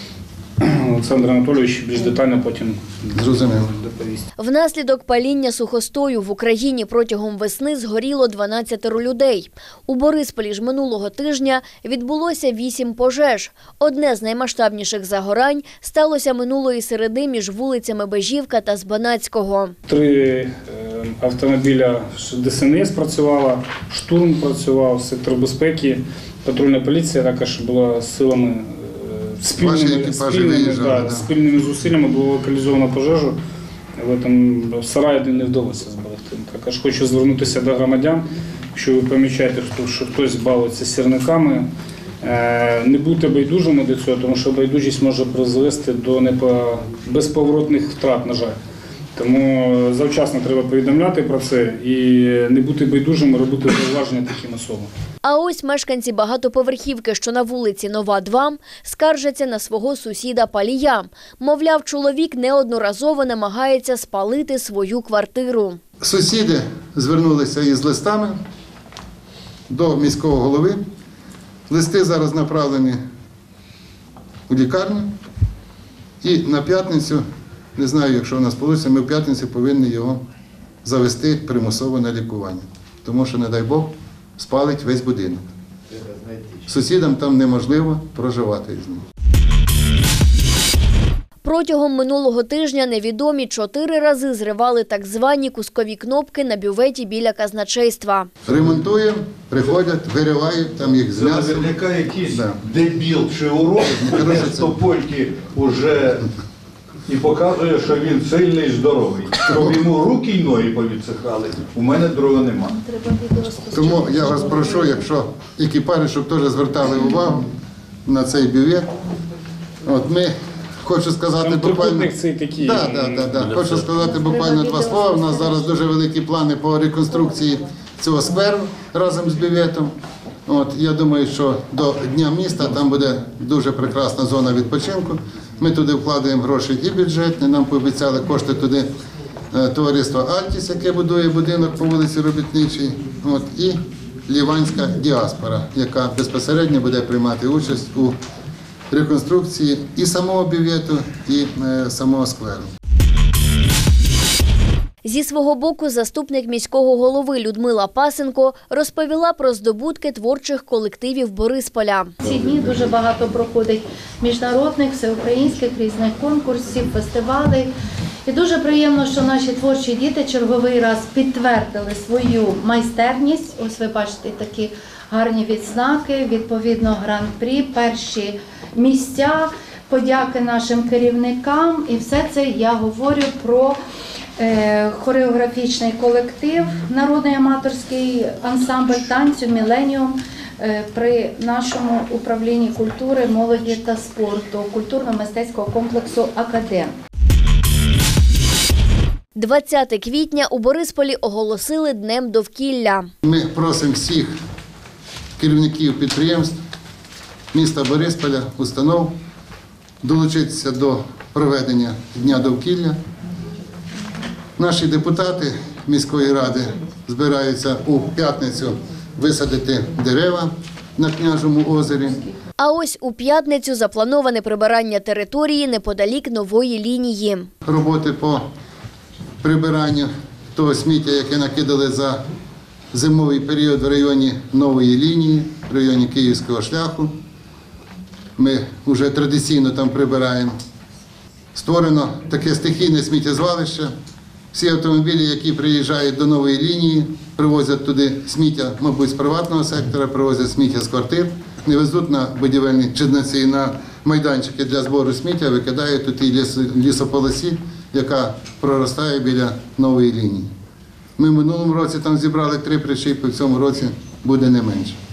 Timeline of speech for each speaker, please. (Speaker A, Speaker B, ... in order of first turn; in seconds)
Speaker A: 0.6-4.3, 19.9-33.4, 34.0-41.7, 42.2-48.6, 49.2-54.9, 121.4-123.7
Speaker B: 3.1-3.7, 29.6-31.3, 66.0-68.4, 69.7-70.8, 71.7-73.0, 74.5-75.1, 76.2-77.2, 77.8-80.2, 80.8-85.4, 86.6-89.0, 98.5-101.7, 102.3-102.6, 104.0-104.7, 113.7-117.5, 118.1-118.9, 119.8-129.9, 130.5-138.9, 139.5-148.2, 148.9-152.7, 203.2-204.4, 205.4-206.6, 207.5-209.2, 210.0-213.0, 214.6-222.2, 227.7-228.4, 229.4-232.2, 232.9-237.1, 238.4-240.6, 241.6-243.9, 244.5-260.5, 261.2-265.0
Speaker C: 4.4-19.8, 55.2-65.8, 91.4-98.3, 155.1-162.1, 199.4-203.1, 222.6-227.5
Speaker D: 101.1-106.3, 107.1-112.7
Speaker E: 112.7-115.0, 124.1-125.7, 162.2-167.7, 168.3-183.8, 184.4-196.9